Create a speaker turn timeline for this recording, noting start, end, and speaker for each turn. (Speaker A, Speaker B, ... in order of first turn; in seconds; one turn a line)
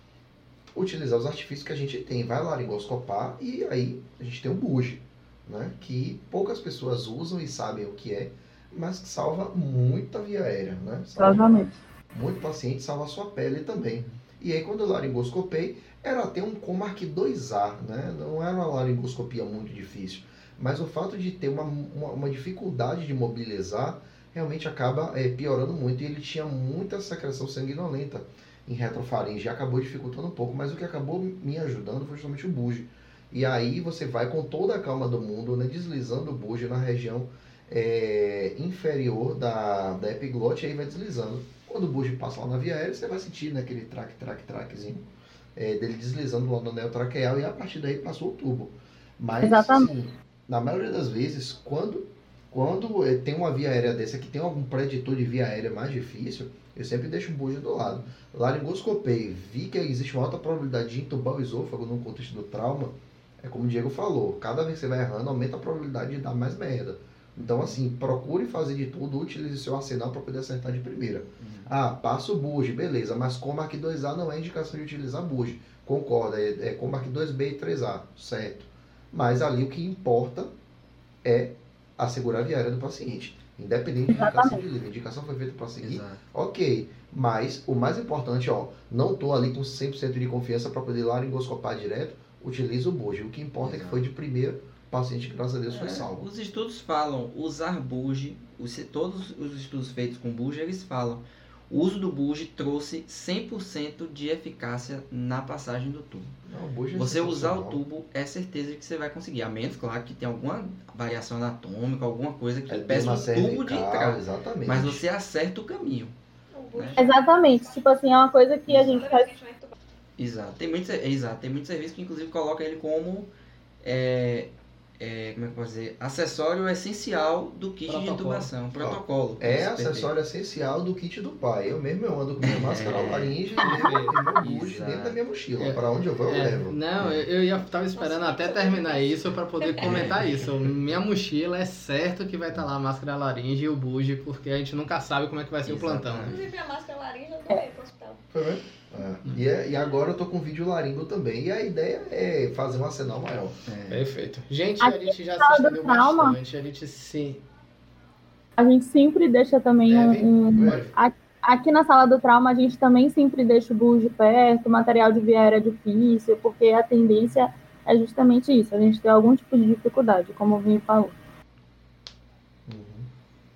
Speaker A: 0.7-80.5
Speaker B: 11.2-11.7
Speaker B: 49.4-49.9
Speaker C: 71.4-71.7
Speaker A: 81.2-96.3
Speaker B: 84.1-84.6
Speaker C: 85.8-86.2
Speaker C: 93.6-94.0
Speaker C: 95.7-106.3
Speaker A: 106.5-107.8
Speaker C: 106.9-116.2
Speaker A: 112.7-115.0
Speaker D: 116.5-117.9
Speaker C: 116.7-117.0
Speaker B: 117.0-119.4
Speaker D: 118.7-119.7
Speaker C: 120.2-123.3
Speaker C: 123.8-130.1
Speaker E: 127.9-128.5
Speaker A: 128.8-136.8
Speaker C: 132.4-135.2
Speaker E: 133.6-134.1
Speaker E: 135.6-146.4
Speaker D: 137.9-140.0
Speaker C: 139.8-140.4
Speaker C: 145.7-146.4
Speaker D: 146.3-148.2
Speaker A: 148.3-153.6
Speaker C: 153.7-154.0
Speaker E: 153.9-157.4
Speaker B: 154.8-156.3
Speaker B: 158.6-171.1
Speaker E: 159.8-160.3
Speaker A: 160.4-160.9
Speaker A: 172.7-173.1